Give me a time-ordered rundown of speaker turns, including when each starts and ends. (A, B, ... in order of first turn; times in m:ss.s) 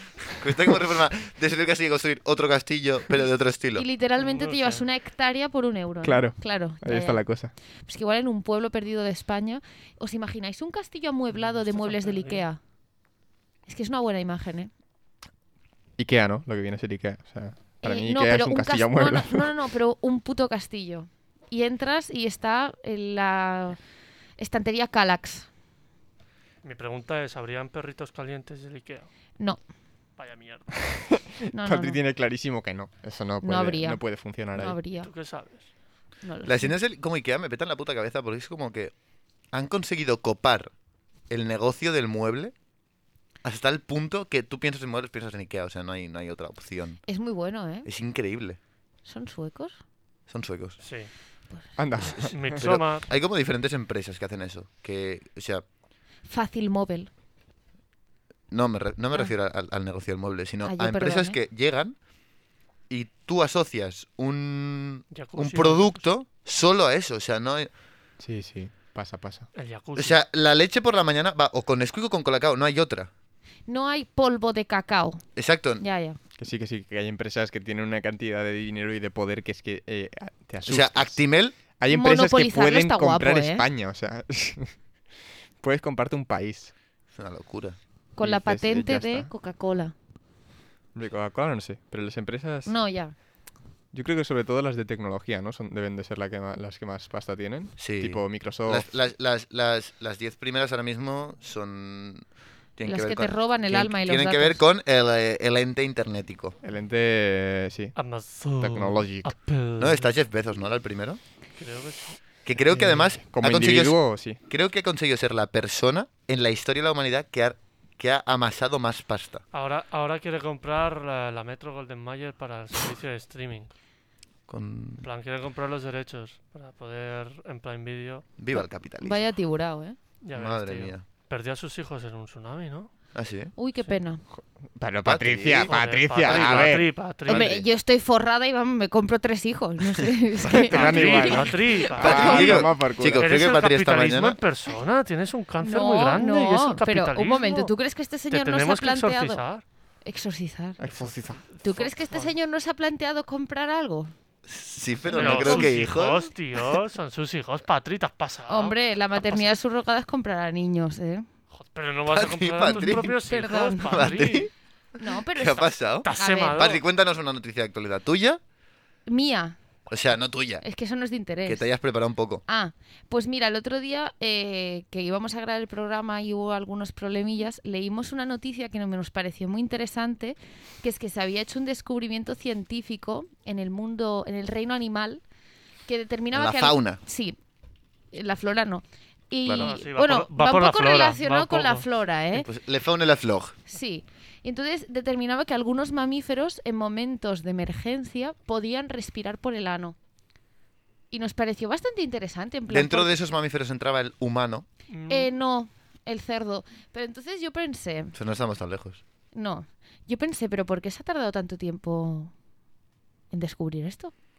0:00.2-0:00.8 A
0:00.4-0:03.8 B
0:03.8-0:07.2 C
0:04.2-0:04.8 D
0:06.0-0:07.5 A
0:07.9-0:12.6 C
0:11.4-0:12.4 D
0:13.7-0:14.7 C
0:16.0-0:19.5 A
0:17.8-0:23.8 C
0:24.4-0:25.5 C
0:26.6-0:29.1 D
0:30.2-0:30.9 D
0:31.0-0:34.8 A
0:31.5-0:32.0 C
0:33.4-0:35.1 C
0:35.0-0:35.7 D
0:36.2-0:36.8 C
0:36.4-0:38.9 B
0:39.5-0:40.7 B
0:41.3-0:42.5 B
0:43.4-0:47.0 B
0:47.1-0:47.9 C
0:47.8-0:48.6 B
0:49.0-0:49.8 C
0:50.3-0:50.8 B
0:50.8-0:51.1 D
0:51.8-0:52.6 A
0:52.0-0:55.6 B
0:52.2-0:53.1 D
0:56.3-0:57.1 C
0:58.5-1:02.0 B
1:00.6-1:01.4 C
1:02.9-1:07.7 B
1:05.1-1:06.0 D
1:08.2-1:09.5 A
1:09.5-1:10.2 D
1:10.0-1:13.1 B
1:13.7-1:15.2 C
1:15.4-1:15.8 B
1:15.8-1:16.2 C
1:16.4-1:21.2 A
1:20.7-1:21.6 B
1:21.8-1:24.8 A
1:21.9-1:23.7 C
1:25.6-1:26.7 A
1:27.1-1:27.8 B
1:28.2-1:29.9 C
1:28.2-1:29.3 A
1:30.9-1:32.7 A
1:32.7-1:33.1 C
1:33.9-1:38.9 A
1:37.8-1:42.2 B
1:42.8-1:46.6 B
1:42.8-1:44.6 C
1:46.6-1:48.0 A
1:48.0-1:50.1 D
1:48.6-1:49.3 A
1:49.8-1:51.2 B
1:51.6-1:52.2 D
1:52.4-1:59.4 B
1:52.7-1:54.4 A
1:59.5-2:03.7 D
2:04.5-2:05.0 B
2:05.0-2:08.3 D
2:08.4-2:09.2 B
2:09.0-2:10.0 C
2:10.2-2:12.9 D
2:10.3-2:11.0 B
2:13.1-2:13.5 B
2:13.6-2:14.2 C
2:14.8-2:16.9 A
2:15.0-2:17.6 B
2:15.7-2:17.5 D
2:17.3-2:22.4 C
2:20.4-2:23.3 A
2:20.7-2:27.7 D
2:22.0-2:24.4 B
2:25.6-2:29.4 C
2:28.3-2:29.6 D
2:30.0-2:30.8 C
2:30.8-2:31.4 A
2:30.9-2:32.3 D
2:31.6-2:34.1 C
2:34.5-2:36.3 B
2:35.1-2:35.9 C
2:35.1-2:39.5 D
2:38.5-2:41.3 C
2:41.5-2:44.5 D
2:42.1-2:43.2 B
2:42.7-2:44.2 C
2:43.9-2:44.5 B
2:45.0-2:46.8 C
2:45.3-2:48.4 B
2:46.0-2:46.8 D
2:49.1-2:49.6 C
2:49.9-2:50.6 B
2:50.6-2:51.7 C
2:51.5-2:52.4 B
2:52.5-3:05.2 C
3:05.9-3:07.4 C
3:06.3-3:07.0 B
3:08.1-3:12.5 C
3:09.4-3:09.7 B
3:09.5-3:11.9 D
3:12.3-3:13.6 B
3:13.7-3:20.0 C
3:21.1-3:23.1 C
3:22.7-3:24.7 B
3:24.9-3:25.3 D
3:25.1-3:28.2 C
3:28.2-3:29.0 B
3:29.3-3:32.3 C
3:33.3-3:34.1 C